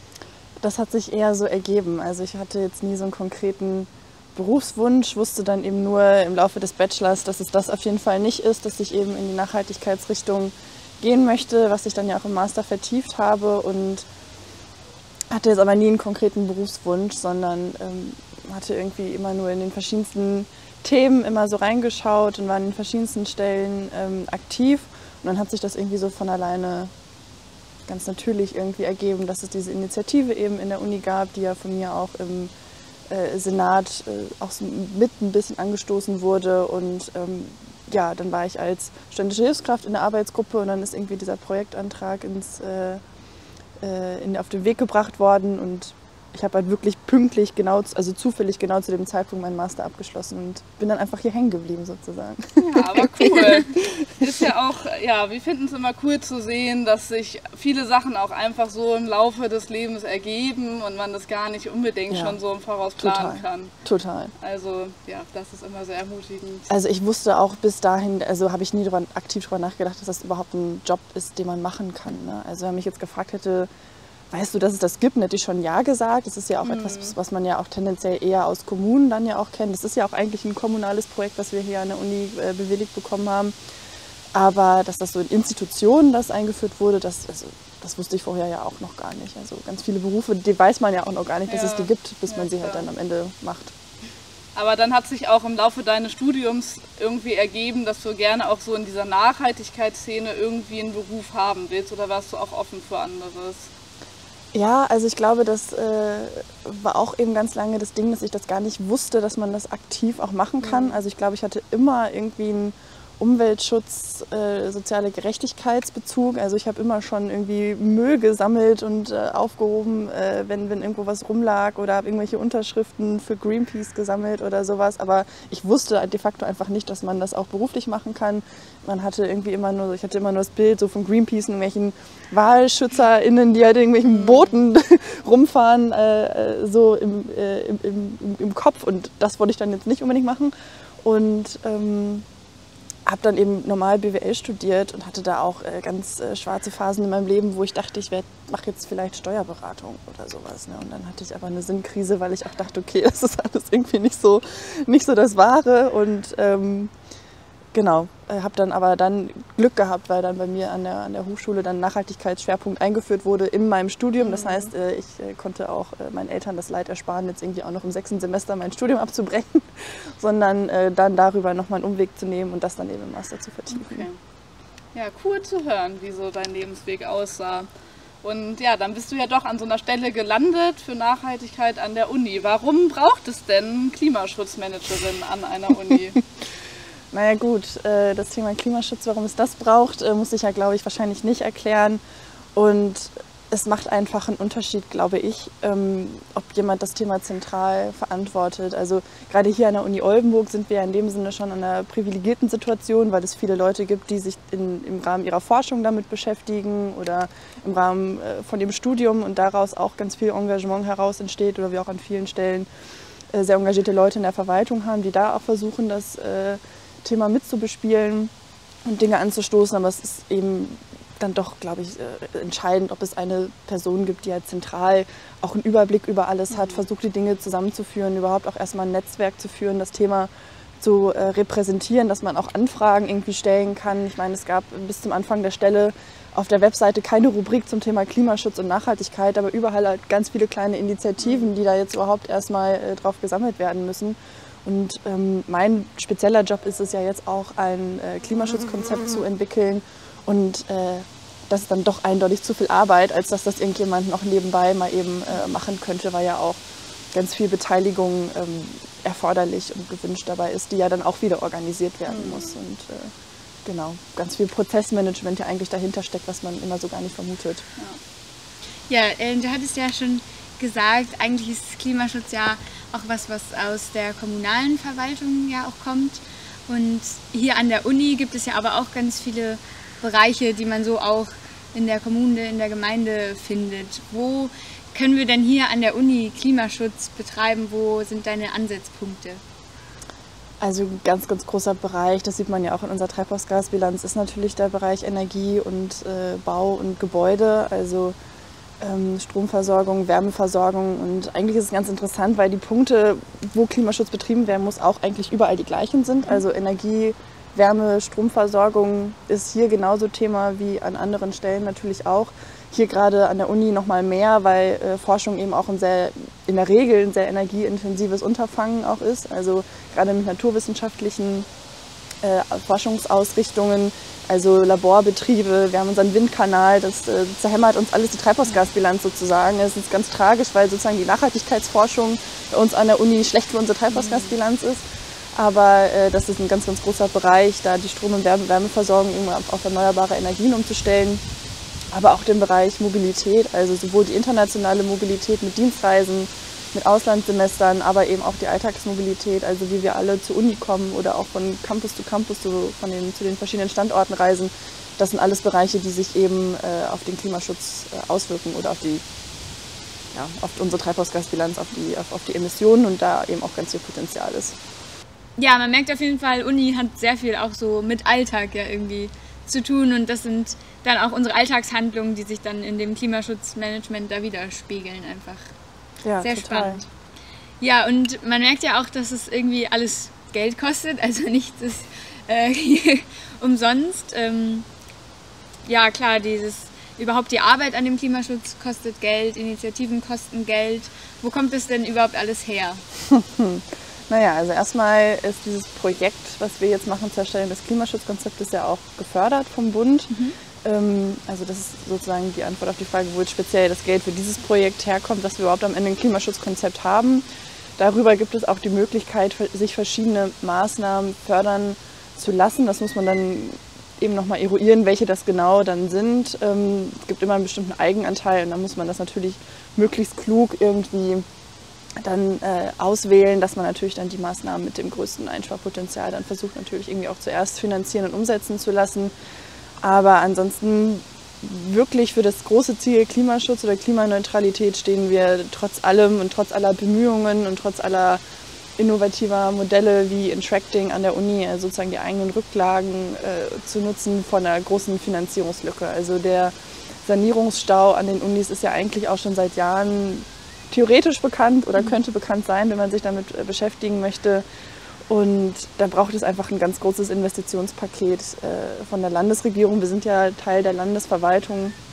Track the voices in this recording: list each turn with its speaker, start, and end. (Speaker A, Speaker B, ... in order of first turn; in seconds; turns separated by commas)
Speaker A: 0.6-14.1, Speaker A: 15.3-26.9, Speaker A: 27.9-32.5, Speaker A: 33.1-43.0, Speaker A: 43.8-54.1, Speaker B: 52.6-63.7, Speaker A: 62.1-62.4, Speaker A: 63.0-64.3, Speaker B: 64.4-66.7, Speaker A: 66.7-73.7, Speaker A: 74.3-83.5, Speaker B: 76.6-77.2, Speaker A: 84.3-93.8, Speaker B: 91.5-92.9, Speaker B: 94.5-103.7, Speaker A: 104.5-140.5, Speaker B: 110.6-111.0, Speaker B: 134.1-134.5, Speaker A: 141.0-142.2, Speaker A: 143.1-156.9, Speaker A: 157.7-174.1, Speaker B: 164.2-164.7, Speaker B: 173.7-174.2, Speaker B: 174.9-177.7, Speaker B: 178.2-186.2, Speaker A: 187.1-192.0, Speaker A: 192.6-212.7, Speaker A: 213.3-218.3, Speaker A: 218.9-256.6, Speaker A: 257.1-263.1, Speaker B: 262.1-262.6, Speaker A: 263.6-267.7, Speaker C: 268.9-289.4, Speaker A: 290.6-298.1, Speaker A: 298.8-321.5, Speaker A: 322.2-341.2, Speaker C: 333.9-334.3, Speaker A: 341.9-359.0, Speaker A: 360.1-364.6, Speaker C: 365.4-375.5, Speaker A: 376.0-376.8, Speaker C: 376.2-376.9, Speaker C: 377.6-384.7, Speaker C: 385.6-392.8, Speaker A: 393.1-407.3, Speaker C: 400.1-400.4, Speaker A: 407.8-421.2, Speaker A: 422.0-429.1, Speaker A: 429.8-438.2, Speaker A: 438.8-454.4, Speaker A: 455.1-461.8